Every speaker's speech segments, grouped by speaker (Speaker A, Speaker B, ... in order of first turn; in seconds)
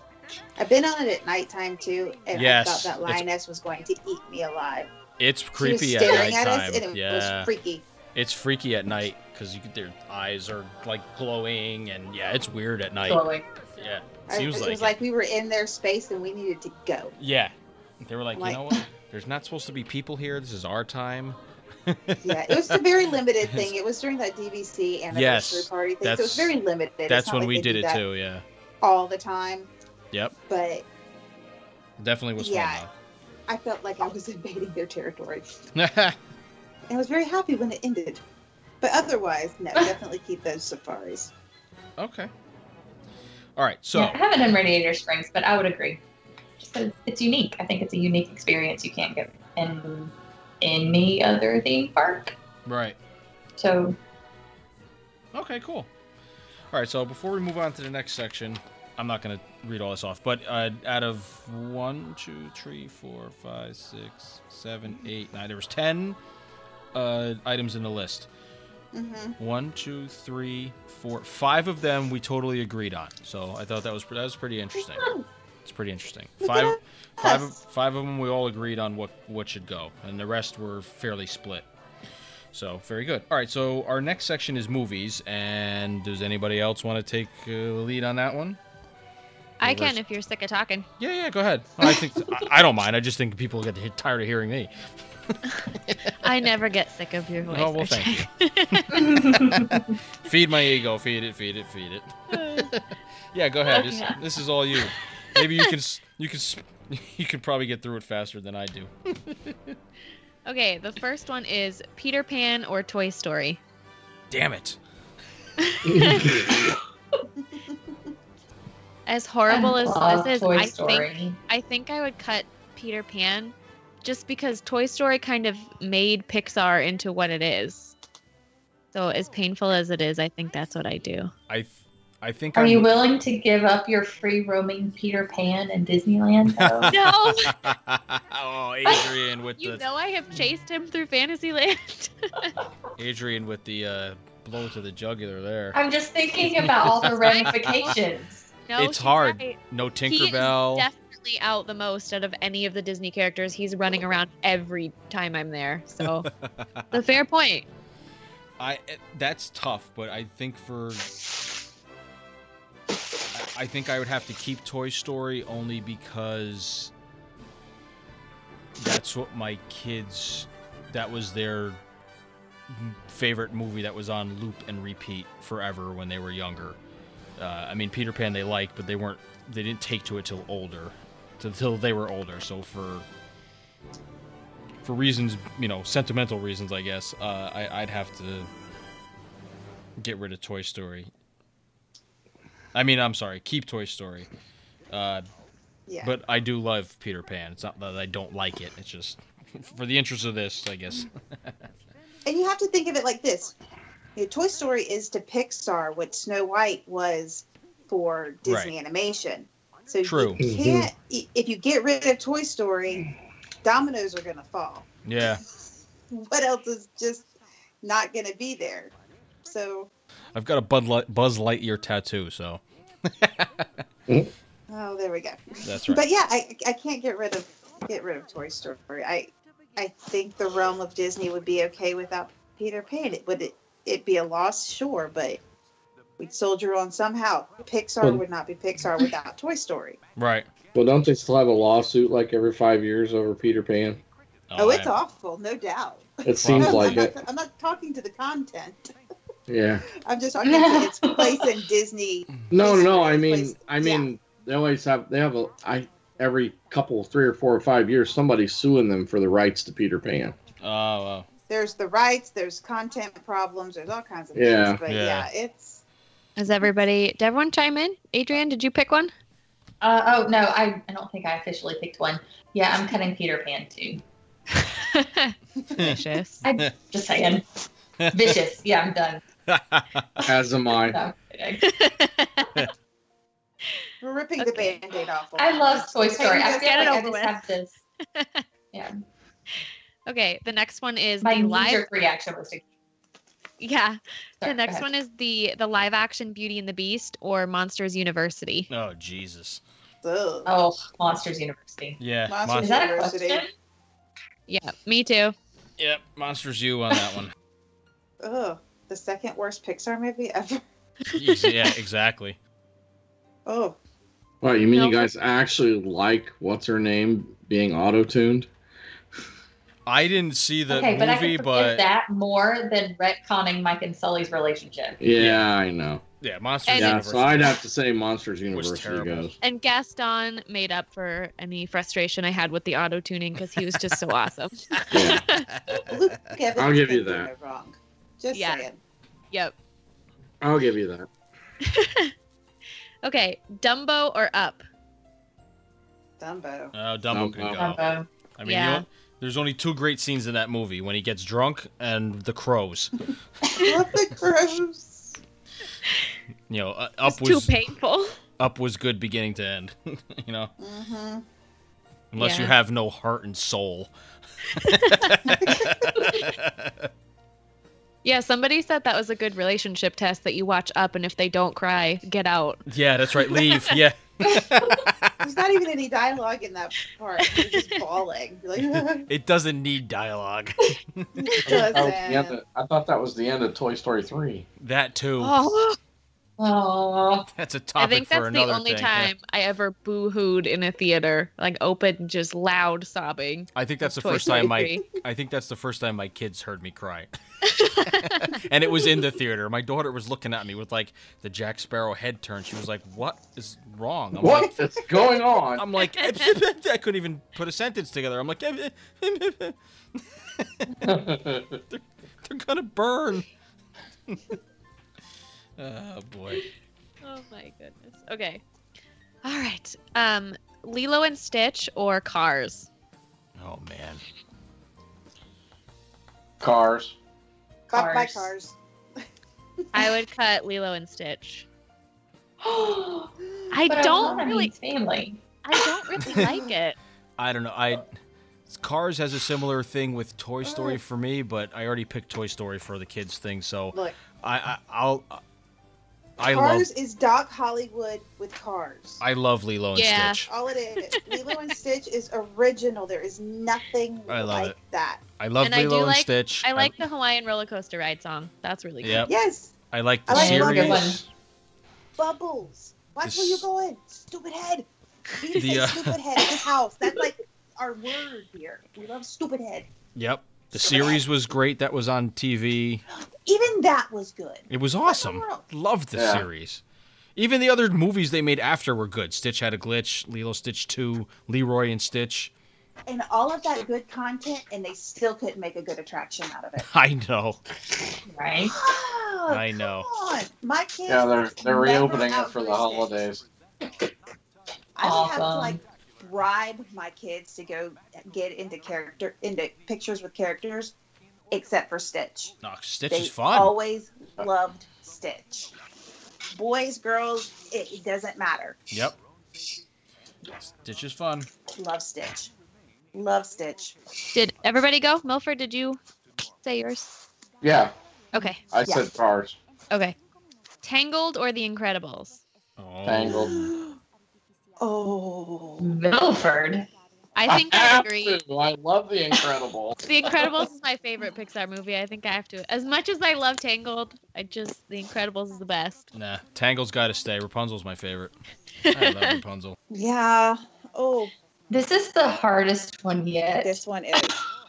Speaker A: 0.6-4.9, 5.6-7.8, 14.3-17.1, 18.4-18.8, 22.2-28.0, 28.8-29.7, 30.5-30.9, 32.4-32.8, 33.5-35.5, 36.9-38.2, 38.8-41.3, 68.9-69.4, 75.0-75.2, 76.4-77.6, 195.9-196.1, 202.2-203.5, 204.2-213.1, 213.6-214.9, 216.1-217.3, 217.8-218.9, 219.4-219.9, 224.7-235.4, 236.2-240.0, 244.6-248.9, 249.9-254.1, 261.5-265.8, 284.0-287.2, 300.0-300.5, 302.3-303.4, 308.2-310.6, 313.4-313.8, 335.8-338.8, 346.2-346.7, 353.4-355.2, 360.6-361.2, 375.2-379.1, 381.1-382.4, 427.7-428.6, 429.6-429.9, 433.3-434.2, 436.0-436.5, 440.4-440.8, 446.2-449.0, 450.3-455.0, 459.1-459.6, 460.1-460.9, 462.0-469.7, 470.5-471.0, 473.0-475.4, 482.9-486.6, 488.4-493.0, 494.8-500.7, 501.3-502.3, 502.9-505.5, 506.3-508.6, 511.5-512.3, 512.9-513.8, 518.6-518.9, 523.0-523.8, 524.6-525.7, 539.7-541.1, 543.4-544.2
Speaker B: 2.3-3.2, 5.2-7.5, 8.1-13.2, 13.8-14.9, 17.2-22.8, 25.1-26.5, 27.1-28.4, 32.0-32.9, 35.7-36.2, 42.0-42.3, 43.5-44.2, 52.6-53.0, 55.3-55.9, 56.7-66.2, 66.9-68.3, 69.4-75.1, 75.6-81.7, 82.5-88.6, 89.6-90.0, 91.0-94.7, 95.3-96.2, 97.5-109.8, 114.3-114.8, 131.5-132.9, 136.5-139.8, 143.0-145.8, 146.5-147.9, 148.8-150.9, 156.0-156.9, 158.6-161.1, 163.3-166.9, 168.8-171.8, 172.7-176.8, 177.4-183.1, 184.8-188.5, 190.0-191.1, 192.7-194.3, 194.9-195.2, 196.0-201.5, 208.4-208.7, 210.0-210.4, 215.0-215.4, 220.3-223.7, 225.6-226.0, 240.2-240.5, 244.5-244.9, 246.3-247.0, 260.6-261.3, 264.9-265.3, 275.8-276.0, 278.0-278.4, 279.5-280.3, 298.7-299.6, 302.0-302.7, 305.8-307.3, 311.1-312.4, 319.9-321.8, 325.1-325.4, 326.2-327.6, 328.5-329.3, 333.5-333.9, 334.7-335.9, 346.7-347.8, 348.4-352.9, 356.5-357.5, 358.4-360.5, 362.1-363.9, 364.5-366.9, 372.6-375.1, 379.0-381.1, 384.6-385.3, 387.3-389.1, 393.5-404.5, 405.5-411.0, 411.7-413.3, 414.1-414.4, 415.6-416.4, 423.4-424.0, 437.2-437.9, 438.5-445.2, 446.2-446.7, 449.0-450.3, 454.1-454.6, 455.2-456.8, 458.8-459.1, 459.7-461.1, 463.0-463.4, 465.3-466.0, 469.9-472.8, 474.5-476.6, 477.1-482.3, 486.6-487.4, 489.3-489.9, 502.4-503.5, 508.7-508.9, 510.3-511.3, 522.6-523.5, 535.9-538.1, 538.7-539.5
Speaker C: 13.1-13.5, 43.9-46.0, 46.6-52.3, 53.6-54.0, 98.9-99.9, 103.7-104.2, 119.5-121.4, 132.5-136.9, 145.7-148.5, 250.4-251.4, 269.8-274.0, 276.4-277.4, 278.1-279.2, 280.7-281.7, 285.4-287.8, 291.2-292.6, 294.4-294.9, 300.4-302.0, 302.5-303.5, 320.7-325.0, 347.6-348.1, 386.4-387.3, 427.7-428.3, 432.4-433.1, 433.7-435.2, 460.1-461.0, 488.1-488.6, 494.8-495.6, 525.6-526.7, 541.5-543.6
Speaker D: 89.6-90.9, 96.2-99.1, 110.5-113.6, 115.6-116.4, 119.0-127.9, 128.9-131.3, 136.9-137.6, 139.6-142.5, 147.2-147.9, 148.7-156.3, 156.9-157.7, 266.4-269.1, 274.5-276.4, 281.6-282.5, 284.4-284.8, 286.4-287.4, 288.1-288.4, 290.1-291.9, 293.6-298.7, 304.5-305.3, 314.7-315.1, 326.7-327.0, 329.4-335.5, 338.3-338.6, 341.6-342.1, 343.0-344.6, 348.4-348.8, 357.1-358.1, 362.2-362.5, 364.6-365.2, 368.0-372.6, 373.2-373.8, 377.2-377.8, 385.2-385.8, 387.8-394.9, 397.4-398.3, 406.0-406.3, 417.0-418.4, 419.2-422.7, 429.7-431.4, 433.5-434.5, 435.4-436.8, 449.8-450.2, 450.8-451.5, 455.4-459.1, 514.1-515.8, 516.4-517.0, 518.1-518.4, 520.6-522.2, 527.1-528.2, 529.8-535.9, 538.7-539.2
Speaker E: 115.8-116.7, 210.4-210.9, 240.7-244.0, 246.2-247.1, 249.5-249.8, 252.5-260.4, 264.3-264.8, 280.2-281.0, 314.4-318.5, 325.0-326.0, 326.7-329.4, 334.9-335.2, 336.5-337.3, 340.4-341.1, 347.1-347.8, 381.4-384.5, 404.2-405.6, 410.8-411.6, 426.4-426.9, 475.9-476.2, 490.9-493.2, 517.4-517.7, 518.5-519.4, 522.8-523.4, 527.3-529.8